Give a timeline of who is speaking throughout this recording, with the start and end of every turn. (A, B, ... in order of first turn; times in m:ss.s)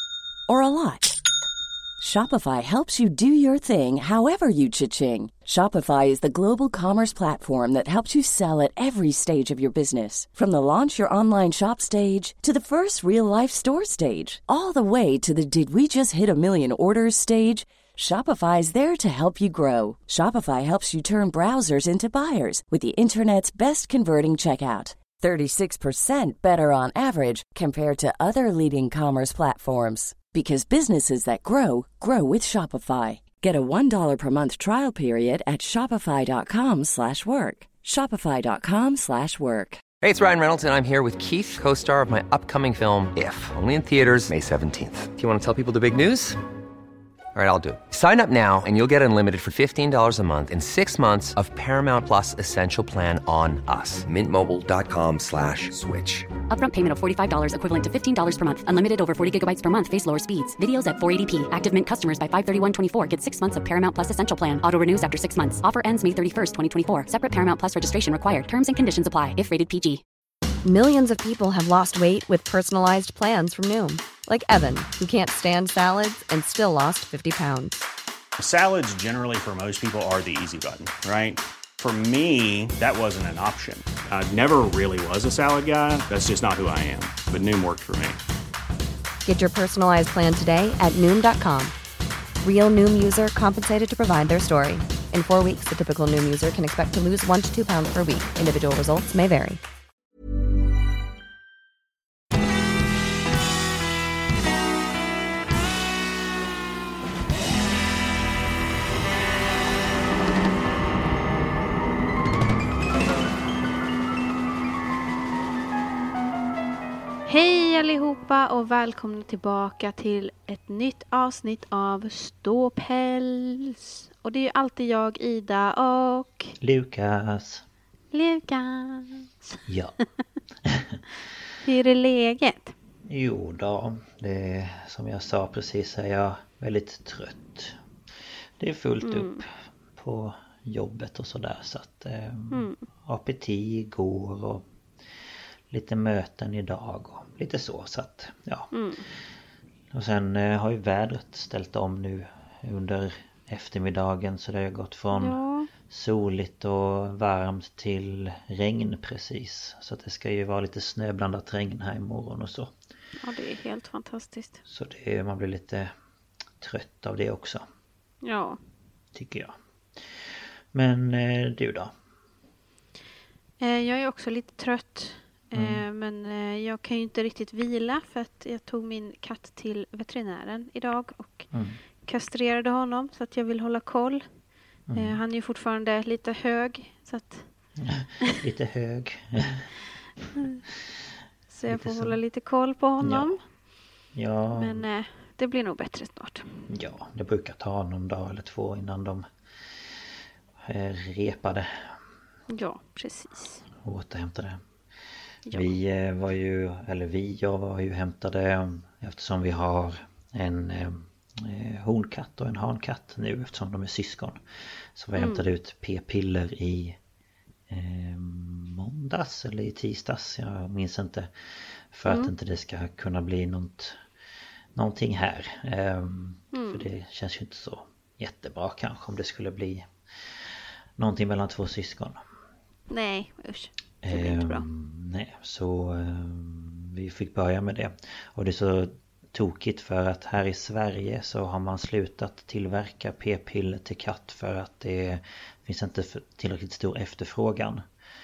0:00.5-0:01.1 A
0:02.0-0:39.8 A
0:40.0-0:46.4 B
0:47.3-0:56.3 B
0:56.5-1:10.0 C
1:10.6-1:17.8 D
1:18.4-1:28.2 E
1:29.2-1:31.7 D
1:32.4-1:39.6 D
1:57.2-2:06.5 F
2:06.6-2:07.6 G
2:08.1-2:09.6 F
2:09.7-2:10.0 G
2:10.6-2:11.0 G
2:11.6-2:12.7 F
2:13.0-2:17.8 G
2:18.6-2:24.6 G
2:19.0-2:19.4 F
2:22.5-2:22.8 F
2:25.7-2:29.1 G
2:28.7-2:29.0 F
2:29.9-2:42.7 G
2:35.1-2:35.7 F
2:43.2-2:44.6 F
2:44.7-2:45.9 G
2:46.6-2:47.6 G
2:48.2-2:48.6 F
2:49.1-2:51.9 G
2:53.6-3:01.5 F
2:55.5-2:55.8 G
3:01.5-3:01.8 G
3:02.0-3:04.2 F
3:04.9-3:05.2 G
3:04.9-3:07.4 F
3:07.8-3:09.7 G
3:11.5-3:13.4 F
3:11.7-3:12.2 G
3:13.0-3:13.3 G
3:14.1-3:14.8 G
3:14.5-3:16.4 F
3:16.7-3:19.2 G
3:20.6-3:22.0 G
3:22.5-3:23.6 F
3:23.8-3:24.6 G
3:25.5-3:25.7 F
3:25.5-3:34.4 G
3:34.9-3:37.0 G
3:35.2-3:35.4 F
3:37.7-3:44.0 G
3:44.7-3:52.2 G
3:46.5-3:46.8 F
3:52.9-3:54.6 F
3:54.0-4:07.8 G